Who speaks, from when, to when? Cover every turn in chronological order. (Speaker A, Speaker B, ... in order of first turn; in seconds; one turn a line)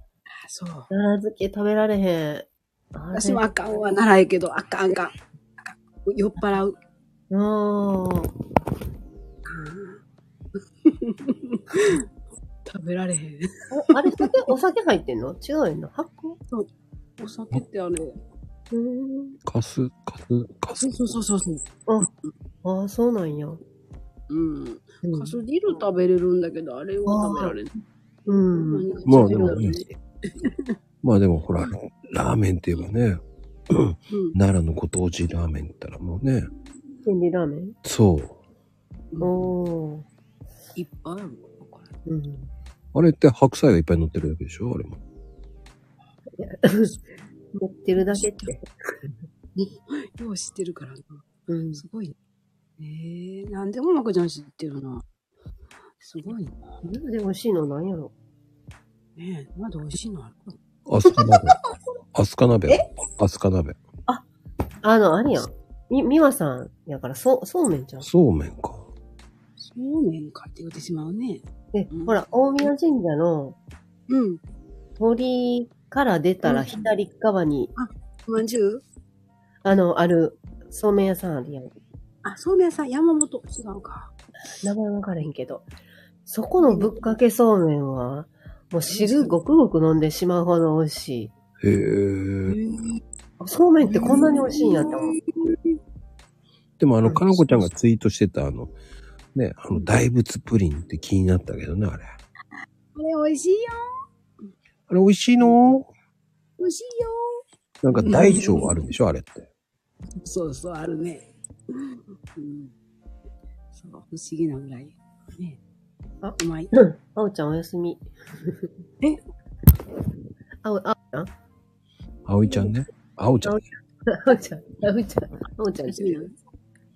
Speaker A: 0.4-0.9
Speaker B: 0.9-3.5
Speaker A: 3.1-6.8
Speaker B: 7.3-8.3
Speaker A: 9.4-10.0
Speaker A: 10.8-12.1
Speaker A: 12.7-14.3
Speaker B: 13.7-16.4
Speaker A: 17.2-18.2
Speaker B: 18.7-19.4
Speaker C: 19.5-20.9
Speaker A: 20.8-21.6
Speaker B: 22.6-23.6
Speaker A: 24.3-27.7
Speaker B: 25.0-25.8
Speaker B: 27.1-27.6
Speaker B: 28.3-29.8
Speaker A: 28.5-30.7
Speaker C: 29.1-29.8
Speaker C: 31.0-36.5
Speaker A: 34.1-34.4
Speaker B: 37.0-37.8
Speaker C: 37.9-38.4
Speaker A: 39.1-39.5
Speaker B: 39.2-40.1
Speaker A: 40.8-41.9
Speaker B: 42.1-42.5
Speaker C: 42.9-45.0
Speaker B: 46.4-46.9
Speaker B: 47.5-49.1
Speaker A: 48.0-48.5
Speaker A: 49.6-51.2
Speaker B: 51.5-51.8
Speaker A: 51.8-52.1
Speaker A: 52.8-55.0
Speaker A: 56.0-56.7
Speaker B: 56.8-58.1
Speaker A: 59.2-60.6
Speaker C: 60.9-61.6
Speaker A: 61.1-61.6
Speaker C: 62.1-63.8
Speaker B: 64.8-68.1
Speaker C: 68.0-68.9
Speaker A: 69.6-72.2
Speaker B: 71.7-73.6
Speaker A: 74.1-74.4
Speaker B: 75.0-77.7
Speaker A: 76.5-76.9
Speaker A: 77.8-78.8
Speaker B: 79.6-81.8
Speaker A: 82.2-84.1
Speaker B: 84.6-85.7
Speaker B: 86.3-91.3
Speaker A: 86.7-86.9
Speaker A: 88.9-89.4
Speaker C: 91.6-92.6
Speaker A: 92.5-93.0
Speaker B: 93.4-95.2
Speaker A: 93.8-95.8
Speaker C: 96.8-98.7
Speaker B: 97.0-97.6
Speaker C: 99.3-102.1
Speaker A: 103.0-103.8
Speaker C: 104.9-105.9
Speaker A: 106.6-108.8
Speaker C: 107.8-109.5
Speaker A: 110.2-112.7
Speaker A: 113.7-115.6
Speaker B: 116.2-118.7
Speaker A: 116.4-116.7
Speaker B: 120.6-121.3
Speaker C: 122.3-123.6
Speaker B: 122.5-122.7
Speaker B: 123.4-126.3
Speaker A: 125.9-126.3